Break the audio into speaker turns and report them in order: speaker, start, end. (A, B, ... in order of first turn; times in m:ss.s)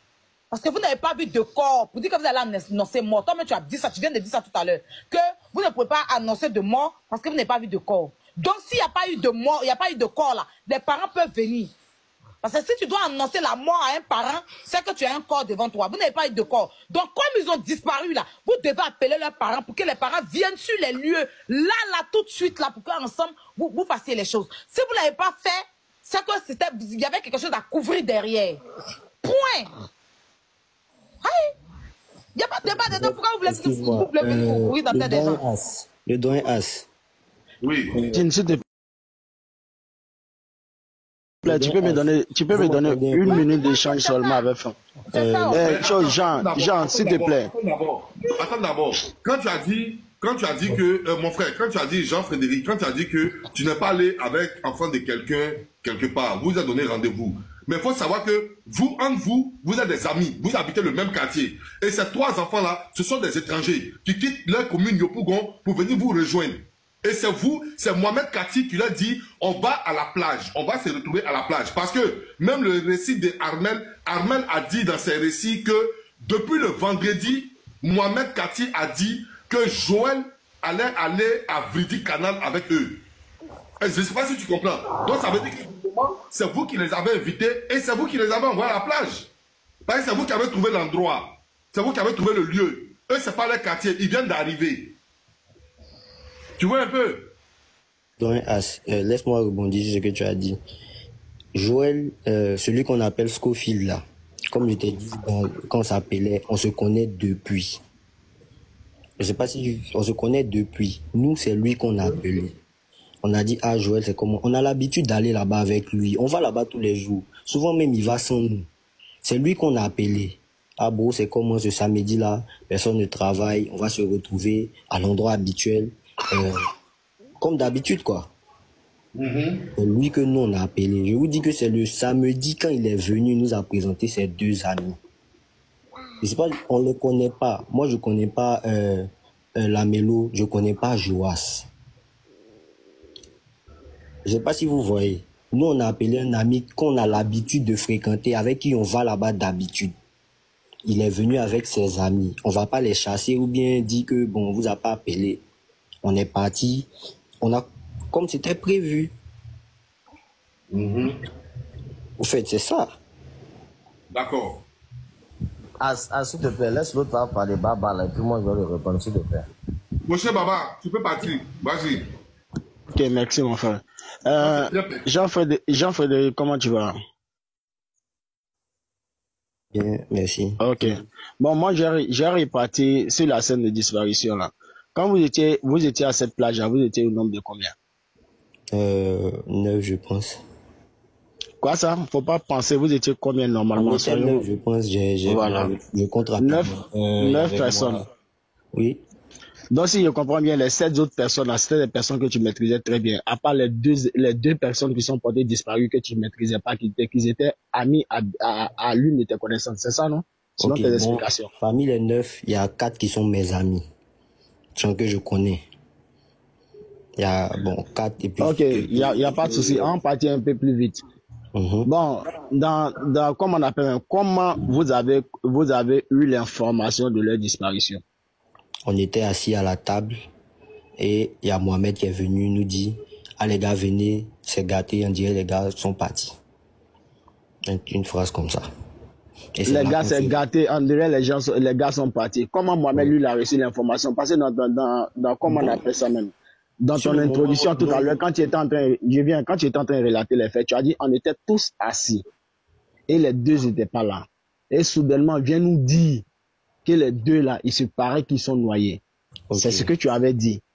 0:00.5-0:11.7 A
0:12.4-0:28.6 A
0:29.2-0:29.7 A
0:31.2-0:31.5 A
0:32.4-0:35.4 A
0:32.9-0:36.9 B
0:37.6-0:38.0 C
0:37.9-0:38.2 B
0:38.1-0:38.6 D
0:41.4-0:43.4 B
0:41.4-0:44.8 D
0:43.3-0:44.4 A
0:45.1-0:45.7 A
0:45.1-0:45.6 B
0:45.5-0:47.5 D
0:45.6-1:23.0 C
1:23.8-1:29.3 C
1:29.8-1:34.9 C
1:36.6-1:37.3 C
1:38.2-1:40.6 B
1:41.5-1:47.8 B
1:49.2-1:52.5 B
1:53.2-1:58.7 B
1:59.2-2:06.6 B
2:07.4-2:08.3 B
2:09.1-2:09.6 C
2:09.8-2:15.0 B
2:16.2-2:21.7 B
2:24.2-2:29.9 B
2:30.8-2:35.4 B
2:36.0-2:36.9 B
2:37.4-2:39.1 B
2:40.7-2:41.2 C
2:42.2-2:43.0 B
2:44.1-2:44.6 C
2:45.8-2:49.4 E
2:50.0-2:52.0 C
2:52.9-2:56.9 D
2:54.4-2:55.0 C
2:59.7-3:01.0 B
3:00.6-3:07.7 D
3:08.7-3:10.4 B
3:11.6-3:14.4 D
3:13.8-3:18.0 B
3:15.2-3:15.7 D
3:16.4-3:18.0 D
3:18.7-3:19.0 B
3:19.7-3:31.5 D
3:30.6-3:33.8 B
3:34.8-3:35.6 B
3:37.2-3:39.9 B
3:38.4-3:41.0 D
3:41.5-3:41.9 B
3:41.8-3:48.0 D
3:48.8-3:50.2 B
3:51.0-3:56.3 B
3:57.7-3:58.6 B
3:59.6-4:00.3 B
3:59.7-4:12.2 D
4:05.5-4:05.8 B
4:06.9-4:08.2 B
4:13.1-4:16.2 D
4:16.8-4:19.0 D
4:19.5-4:19.9 B
4:19.5-4:20.6 D